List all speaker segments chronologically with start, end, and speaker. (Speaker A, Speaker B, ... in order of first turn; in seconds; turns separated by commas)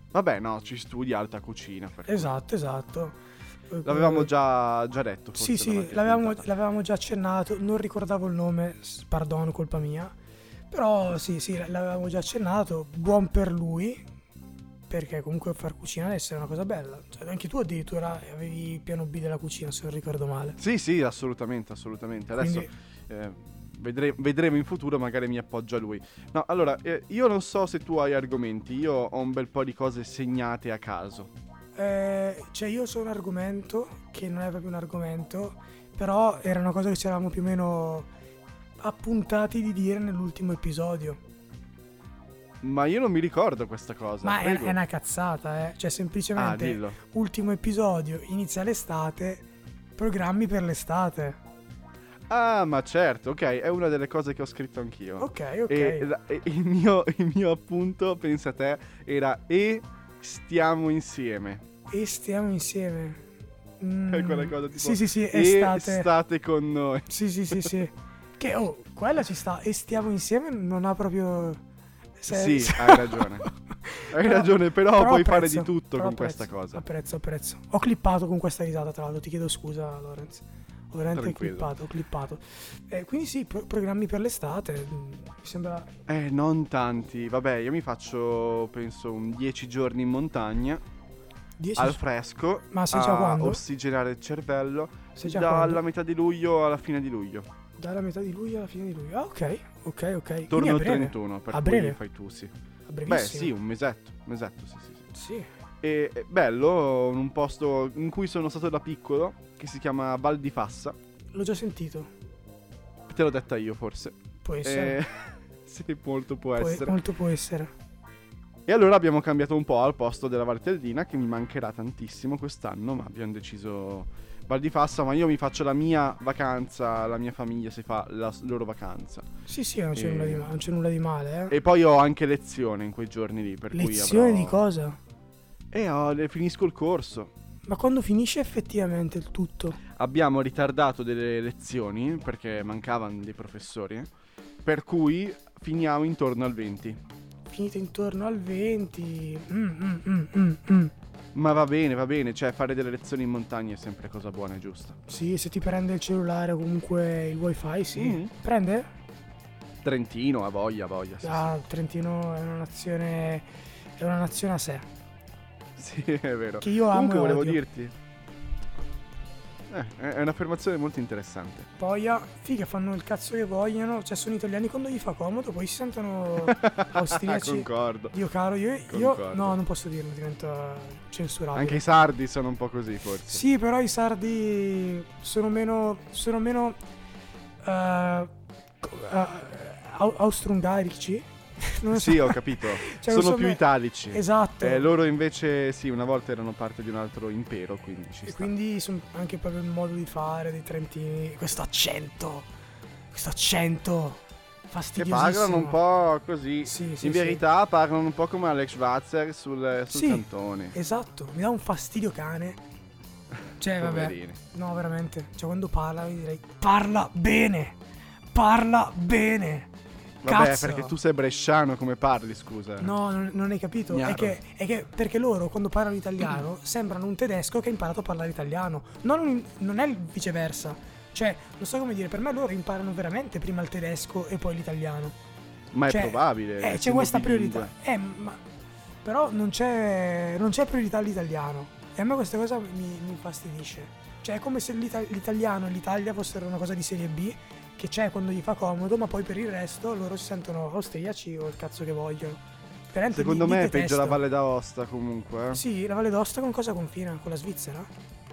Speaker A: 0.1-2.3, Speaker B: 2.1-4.3, Speaker A: 3.8-6.5, Speaker B: 5.3-10.1, Speaker B: 10.7-14.0, Speaker B: 14.9-20.6, Speaker A: 20.6-31.3, Speaker B: 22.3-22.7, Speaker B: 31.8-38.1, Speaker B: 38.8-41.2, Speaker A: 42.6-44.8, Speaker B: 44.2-51.4, Speaker A: 46.4-47.0, Speaker A: 52.3-61.6, Speaker B: 55.2-56.1, Speaker B: 61.9-63.3, Speaker B: 63.8-66.1, Speaker A: 64.1-67.1, Speaker B: 67.1-71.6, Speaker B: 72.2-85.9, Speaker A: 72.3-73.5, Speaker A: 74.1-76.8, Speaker A: 81.1-81.7, Speaker A: 86.1-90.8, Speaker B: 91.6-92.0, Speaker A: 91.8-97.5, Speaker B: 92.7-93.6, Speaker B: 95.2-95.8, Speaker B: 97.8-102.0, Speaker A: 100.5-102.5, Speaker B: 102.9-103.5, Speaker A: 103.0-105.1, Speaker B: 105.1-105.5, Speaker A: 105.8-111.0, Speaker B: 111.3-112.1, Speaker A: 113.1-117.0, Speaker B: 114.4-115.0, Speaker B: 116.6-117.7, Speaker A: 118.7-129.3, Speaker B: 129.5-131.6, Speaker A: 129.9-130.6, Speaker A: 131.5-134.6, Speaker B: 133.7-135.0, Speaker A: 135.7-137.3, Speaker B: 137.7-139.8, Speaker A: 139.9-144.1, Speaker A: 144.7-147.0, Speaker B: 147.5-150.9, Speaker A: 151.3-155.0, Speaker B: 155.1-158.9, Speaker A: 158.0-158.3, Speaker A: 159.8-161.5, Speaker B: 161.2-164.9, Speaker A: 165.8-167.9, Speaker B: 166.6-167.6, Speaker A: 169.7-171.7, Speaker B: 171.8-181.8, Speaker A: 176.4-178.2, Speaker A: 178.9-179.6, Speaker A: 181.5-183.4, Speaker B: 183.3-186.8, Speaker B: 187.6-194.9, Speaker A: 191.9-198.5, Speaker B: 198.3-202.5, Speaker B: 203.1-205.8, Speaker A: 205.0-210.8, Speaker B: 206.7-207.4, Speaker B: 209.9-212.6, Speaker B: 213.6-217.8, Speaker A: 213.8-214.4, Speaker B: 218.3-219.7, Speaker A: 220.2-222.9, Speaker B: 220.2-221.0, Speaker B: 222.8-235.2, Speaker A: 223.9-224.4, Speaker A: 235.7-237.7, Speaker B: 235.9-238.4, Speaker B: 239.0-254.2, Speaker A: 253.1-255.6, Speaker B: 255.5-257.9